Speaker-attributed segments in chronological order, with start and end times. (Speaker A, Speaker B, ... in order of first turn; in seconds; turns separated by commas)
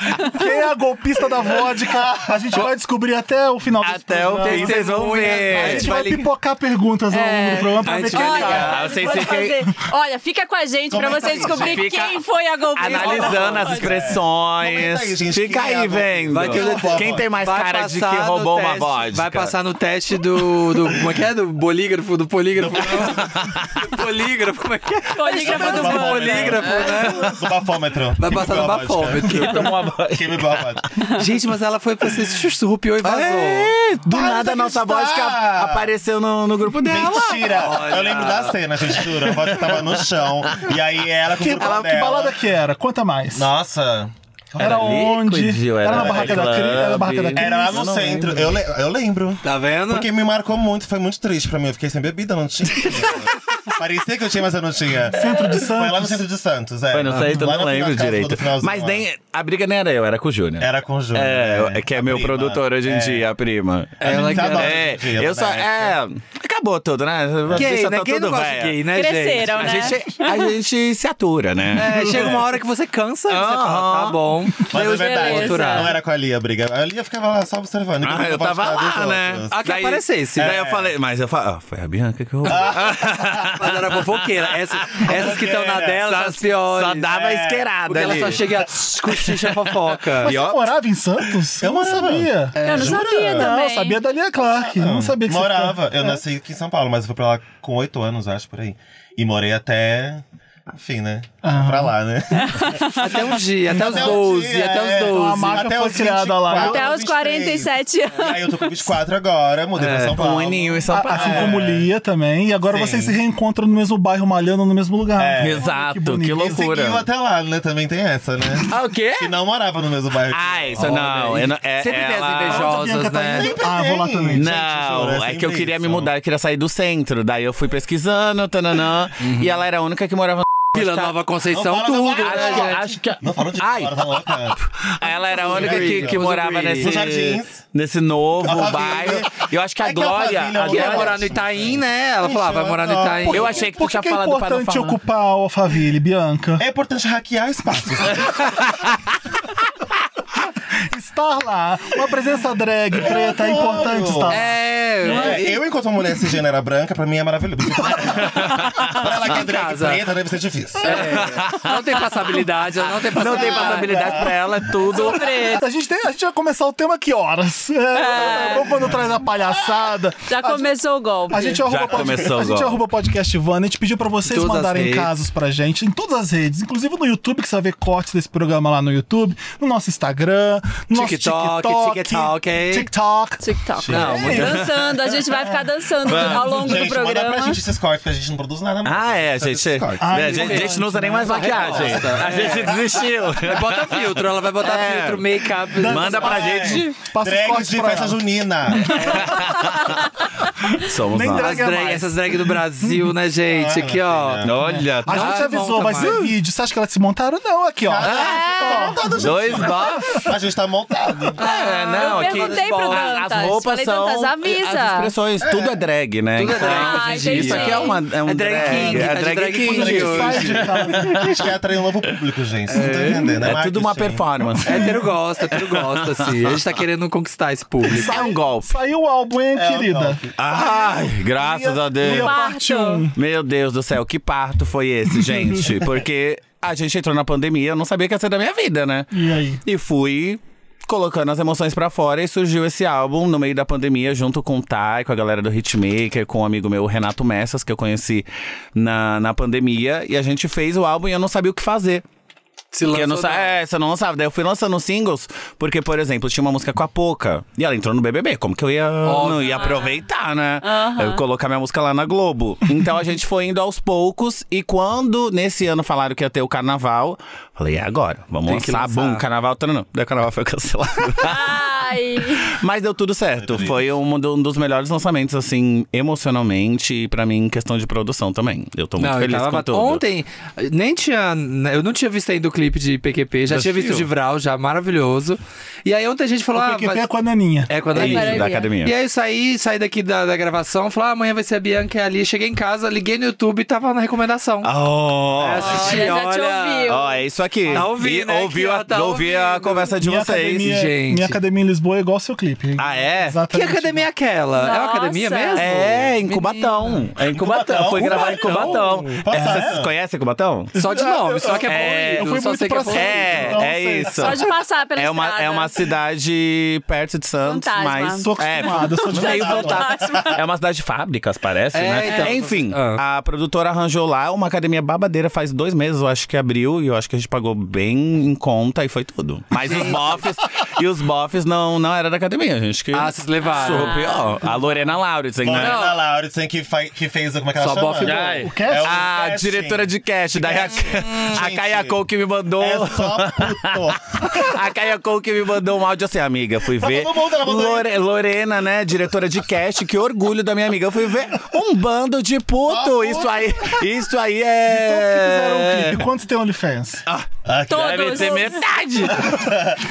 Speaker A: 0.2-4.9, Speaker B: 3.8-5.9, Speaker C: 4.4-6.2, Speaker A: 5.4-8.9, Speaker D: 7.1-14.0, Speaker C: 7.8-9.2, Speaker B: 8.5-9.6, Speaker E: 10.9-11.9, Speaker B: 11.4-12.2, Speaker B: 12.8-19.6, Speaker E: 12.9-17.3, Speaker C: 13.0-13.4, Speaker C: 16.3-27.4, Speaker B: 22.8-23.9, Speaker D: 25.1-27.3, Speaker E: 25.2-30.9, Speaker C: 28.2-29.7, Speaker B: 29.2-30.6, Speaker D: 31.0-31.3, Speaker C: 31.1-33.7, Speaker B: 33.0-38.4, Speaker E: 34.1-35.9, Speaker E: 36.8-42.4, Speaker C: 37.5-38.6, Speaker B: 38.9-40.7, Speaker A: 41.4-43.5, Speaker E: 43.4-45.1, Speaker A: 44.6-47.9, Speaker B: 44.6-48.6, Speaker E: 45.9-46.7, Speaker E: 47.4-59.0, Speaker C: 49.4-50.1, Speaker A: 55.1-56.2, Speaker B: 56.9-68.8, Speaker E: 60.6-63.3, Speaker C: 64.0-64.9, Speaker E: 64.0-65.9, Speaker C: 67.5-69.9, Speaker D: 68.9-70.2, Speaker B: 69.6-72.4, Speaker C: 71.7-75.9, Speaker E: 71.9-72.4, Speaker B: 73.3-74.2, Speaker E: 74.7-79.5, Speaker D: 74.7-75.9, Speaker B: 78.0-85.3, Speaker C: 79.5-80.5, Speaker E: 80.4-80.9, Speaker E: 82.4-83.5, Speaker C: 83.6-87.2, Speaker E: 85.0-86.4, Speaker B: 86.7-90.6, Speaker E: 87.1-88.2, Speaker C: 87.9-90.3, Speaker A: 90.2-95.8, Speaker E: 91.6-93.5, Speaker C: 92.6-93.3, Speaker D: 92.6-94.0, Speaker E: 94.5-111.9, Speaker A: 101.4-102.0, Speaker D: 102.4-103.0, Speaker C: 103.0-105.8, Speaker A: 105.1-106.9, Speaker D: 106.5-108.8, Speaker C: 109.8-110.2, Speaker B: 110.1-111.6, Speaker A: 110.9-116.6, Speaker E: 112.7-113.2, Speaker E: 115.2-115.7, Speaker B: 115.4-117.0, Speaker E: 116.4-121.0, Speaker B: 118.7-119.3, Speaker B: 120.3-122.7, Speaker C: 120.8-123.5, Speaker A: 122.5-124.5, Speaker E: 123.3-126.1, Speaker B: 124.3-131.2, Speaker C: 129.2-129.5, Speaker C: 130.7-132.8, Speaker E: 131.5-137.6, Speaker B: 132.2-141.3, Speaker C: 135.4-136.9, Speaker E: 138.4-143.6, Speaker C: 140.6-143.5, Speaker A: 143.3-146.6, Speaker B: 143.3-145.0, Speaker E: 146.6-148.5, Speaker B: 148.7-149.0, Speaker A: 150.9-154.5, Speaker E: 153.0-154.4, Speaker C: 154.3-155.5, Speaker E: 155.0-161.3, Speaker D: 155.1-155.4, Speaker B: 158.2-159.0, Speaker C: 159.0-160.0, Speaker C: 160.8-164.2, Speaker B: 160.9-161.8, Speaker B: 163.1-165.4, Speaker E: 163.2-164.3, Speaker D: 164.8-165.6, Speaker A: 165.6-170.8, Speaker D: 167.9-168.8, Speaker D: 170.3-171.6, Speaker A: 171.3-184.5, Speaker B: 171.7-172.8, Speaker E: 171.9-172.3, Speaker C: 174.3-175.1, Speaker C: 180.9-182.9, Speaker D: 183.4-187.6, Speaker E: 183.8-184.8, Speaker C: 183.9-184.6, Speaker B: 186.1-186.6, Speaker E: 186.1-190.5, Speaker B: 188.8-196.9, Speaker A: 190.0-191.9, Speaker C: 190.4-190.7, Speaker C: 191.2-192.8, Speaker E: 191.6-192.8, Speaker C: 193.5-196.4, Speaker A: 195.8-198.2, Speaker E: 196.1-199.4, Speaker B: 199.0-200.1, Speaker A: 199.0-199.5, Speaker A: 200.7-203.0, Speaker B: 200.8-201.6, Speaker C: 201.3-204.4, Speaker E: 203.5-204.6, Speaker B: 204.4-205.4, Speaker A: 205.1-210.0, Speaker C: 205.1-206.3, Speaker E: 207.8-211.4, Speaker D: 208.1-209.0, Speaker B: 209.2-210.3, Speaker C: 211.4-213.2, Speaker B: 211.4-221.4, Speaker D: 211.6-215.1, Speaker E: 215.4-215.7, Speaker C: 216.4-220.6, Speaker D: 216.5-218.0, Speaker A: 219.6-221.4, Speaker E: 220.0-224.2, Speaker C: 222.7-223.4, Speaker B: 223.4-225.0, Speaker C: 224.7-228.1, Speaker A: 224.7-225.0, Speaker B: 225.5-226.6, Speaker A: 227.9-233.1, Speaker B: 227.9-228.7, Speaker E: 229.6-230.7, Speaker B: 230.4-232.4, Speaker D: 232.2-233.1, Speaker B: 233.2-252.0, Speaker A: 239.1-239.6, Speaker C: 252.7-253.5, Speaker B: 252.9-271.5, Speaker C: 259.0-259.8, Speaker D: 259.5-259.9, Speaker D: 260.6-261.2, Speaker C: 268.5-269.2, Speaker D: 271.2-272.6, Speaker B: 272.4-280.0, Speaker E: 273.4-273.8, Speaker C: 279.0-287.1, Speaker B: 283.5-284.1, Speaker A: 286.6-287.7, Speaker C: 287.7-294.7, Speaker D: 287.9-288.7, Speaker B: 287.9-288.9, Speaker B: 294.6-296.1, Speaker C: 295.4-297.0, Speaker D: 295.7-297.2, Speaker B: 296.9-300.9, Speaker C: 297.7-299.9, Speaker A: 300.0-304.1, Speaker C: 300.6-301.4, Speaker B: 302.8-303.4, Speaker C: 303.5-307.0, Speaker D: 304.6-305.8, Speaker B: 305.6-310.7, Speaker E: 307.3-309.9, Speaker C: 307.9-309.1, Speaker A: 310.7-314.4, Speaker C: 310.8-313.5, Speaker B: 311.6-312.3, Speaker B: 312.9-314.4, Speaker D: 314.1-315.8, Speaker B: 315.0-335.8, Speaker D: 317.4-320.4, Speaker A: 318.2-319.8, Speaker E: 319.3-320.3, Speaker C: 321.7-323.0, Speaker C: 329.6-330.0, Speaker C: 332.9-334.1, Speaker D: 333.5-334.2, Speaker E: 335.4-342.0, Speaker C: 335.6-336.0, Speaker C: 337.6-338.4, Speaker B: 338.0-356.0, Speaker A: 338.4-339.0, Speaker C: 341.0-341.4, Speaker E: 342.6-344.5, Speaker E: 346.8-347.9, Speaker E: 352.7-353.8, Speaker A: 354.7-357.0, Speaker B: 357.1-359.5, Speaker E: 357.5-358.4, Speaker D: 357.7-358.6, Speaker E: 359.1-359.8